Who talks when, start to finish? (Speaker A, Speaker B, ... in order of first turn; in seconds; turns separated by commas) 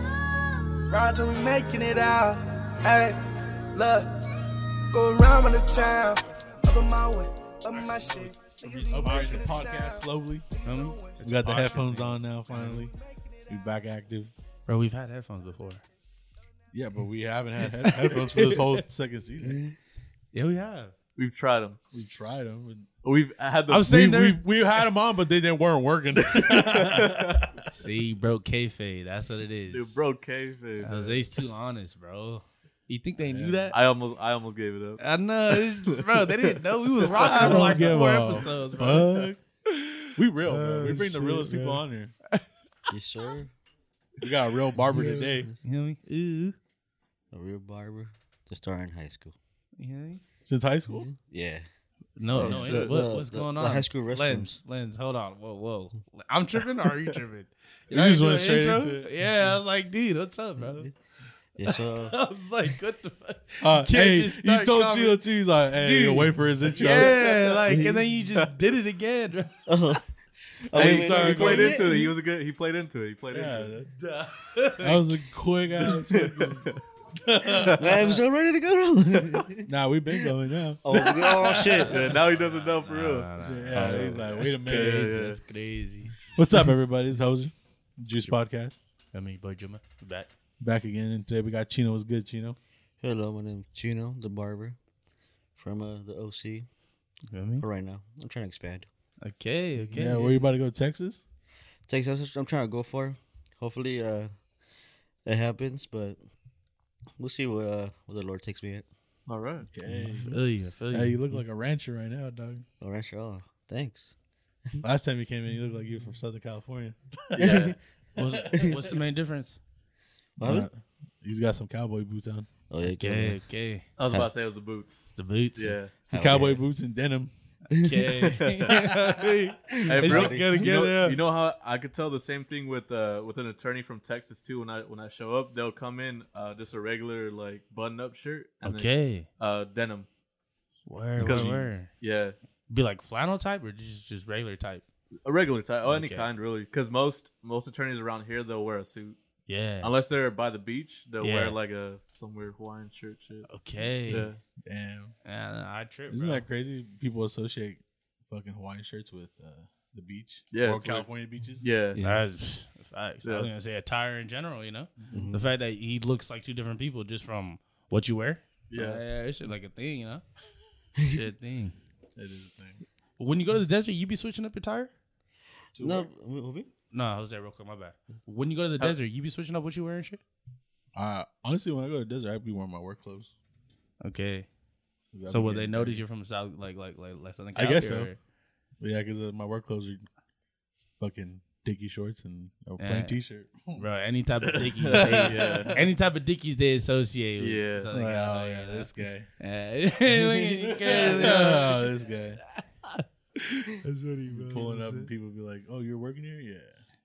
Speaker A: 0.9-3.2, Speaker A: 3.7-4.2, Speaker A: 4.9-11.8, Speaker B: 8.6-10.4, Speaker C: 9.1-9.4, Speaker C: 10.6-12.7, Speaker B: 11.2-12.9, Speaker A: 12.6-13.5, Speaker B: 13.5-14.3, Speaker C: 14.7-15.8, Speaker B: 16.7-19.6, Speaker C: 17.7-18.8, Speaker D: 19.4-19.7, Speaker C: 20.3-20.9, Speaker E: 21.2-21.8, Speaker B: 21.9-22.9, Speaker E: 23.0-23.9, Speaker C: 23.7-24.4, Speaker B: 23.8-27.7, Speaker E: 26.5-27.4, Speaker C: 27.7-30.0, Speaker E: 29.7-31.2, Speaker C: 30.8-33.8, Speaker B: 33.3-33.7, Speaker E: 33.7-37.7, Speaker C: 35.0-39.1, Speaker B: 37.2-39.4, Speaker E: 38.8-39.3, Speaker C: 39.7-42.4, Speaker B: 40.1-42.1, Speaker D: 42.9-43.5, Speaker B: 44.2-45.5, Speaker C: 45.0-46.5, Speaker D: 47.3-49.4, Speaker C: 49.8-50.2, Speaker B: 50.5-51.1, Speaker D: 50.9-51.6, Speaker C: 52.2-60.9, Speaker D: 52.3-54.5, Speaker E: 52.4-53.0, Speaker B: 57.9-59.1, Speaker D: 61.5-62.1, Speaker C: 61.7-65.2, Speaker B: 63.6-67.2, Speaker C: 65.8-70.0, Speaker D: 67.7-68.0, Speaker D: 69.7-70.0, Speaker D: 70.7-72.0, Speaker E: 70.7-73.7, Speaker B: 70.7-71.7, Speaker B: 73.3-73.9, Speaker C: 74.0-75.1, Speaker B: 74.8-78.0, Speaker E: 75.8-76.8, Speaker E: 77.5-78.0, Speaker D: 77.8-79.7, Speaker E: 79.1-79.5, Speaker B: 79.7-81.7, Speaker D: 80.8-82.0, Speaker C: 81.2-86.2, Speaker E: 81.8-85.4, Speaker B: 83.4-85.1, Speaker B: 86.3-88.8, Speaker C: 89.1-90.3, Speaker B: 90.6-92.6, Speaker D: 93.0-94.8, Speaker D: 95.5-96.7, Speaker C: 97.3-97.6, Speaker D: 97.6-98.9, Speaker C: 99.2-100.5, Speaker B: 99.9-101.2, Speaker D: 101.9-104.3, Speaker D: 105.2-106.2, Speaker D: 107.2-108.8, Speaker E: 109.3-109.7, Speaker B: 109.7-110.4, Speaker D: 109.9-110.4, Speaker C: 110.3-111.2, Speaker B: 110.9-112.6, Speaker D: 112.8-114.1, Speaker B: 114.8-118.8, Speaker E: 117.3-117.7, Speaker D: 117.4-117.8, Speaker C: 118.2-119.6, Speaker D: 120.4-120.7, Speaker B: 120.4-122.5, Speaker D: 122.7-123.4, Speaker C: 122.8-123.8, Speaker E: 124.0-125.0, Speaker C: 125.1-125.8, Speaker E: 125.5-126.0, Speaker D: 126.1-126.6, Speaker B: 126.1-127.3, Speaker C: 127.7-131.2, Speaker D: 127.7-128.1, Speaker E: 128.2-128.7, Speaker D: 129.7-130.7, Speaker E: 129.9-140.1, Speaker C: 138.6-139.3, Speaker C: 140.8-141.9, Speaker E: 141.2-142.3, Speaker B: 141.2-141.6, Speaker C: 142.7-144.8, Speaker E: 145.2-149.2, Speaker C: 145.8-146.3, Speaker C: 149.5-149.9, Speaker E: 149.8-153.5, Speaker C: 151.2-151.6, Speaker C: 153.4-154.3, Speaker E: 154.1-154.4, Speaker B: 154.7-155.1, Speaker C: 155.2-156.4, Speaker B: 156.1-161.6, Speaker E: 160.5-161.1, Speaker E: 161.6-162.0, Speaker D: 161.9-162.2, Speaker C: 162.0-170.2, Speaker E: 163.2-163.5, Speaker D: 165.1-165.5, Speaker E: 168.7-169.0, Speaker C: 171.1-171.8, Speaker B: 172.2-172.8, Speaker C: 173.2-174.9, Speaker B: 175.8-176.1, Speaker D: 175.8-176.7, Speaker C: 176.9-180.2, Speaker B: 180.9-183.3, Speaker C: 184.0-184.5, Speaker B: 185.1-186.0, Speaker C: 185.3-188.2, Speaker B: 187.5-188.1, Speaker B: 188.8-190.1, Speaker B: 191.0-193.8, Speaker C: 192.8-193.2, Speaker C: 193.8-201.9, Speaker E: 194.5-195.8, Speaker B: 194.9-195.9, Speaker E: 197.4-197.9, Speaker B: 197.9-199.3, Speaker B: 200.3-202.4, Speaker D: 201.0-201.4, Speaker C: 202.5-205.1, Speaker B: 204.3-206.8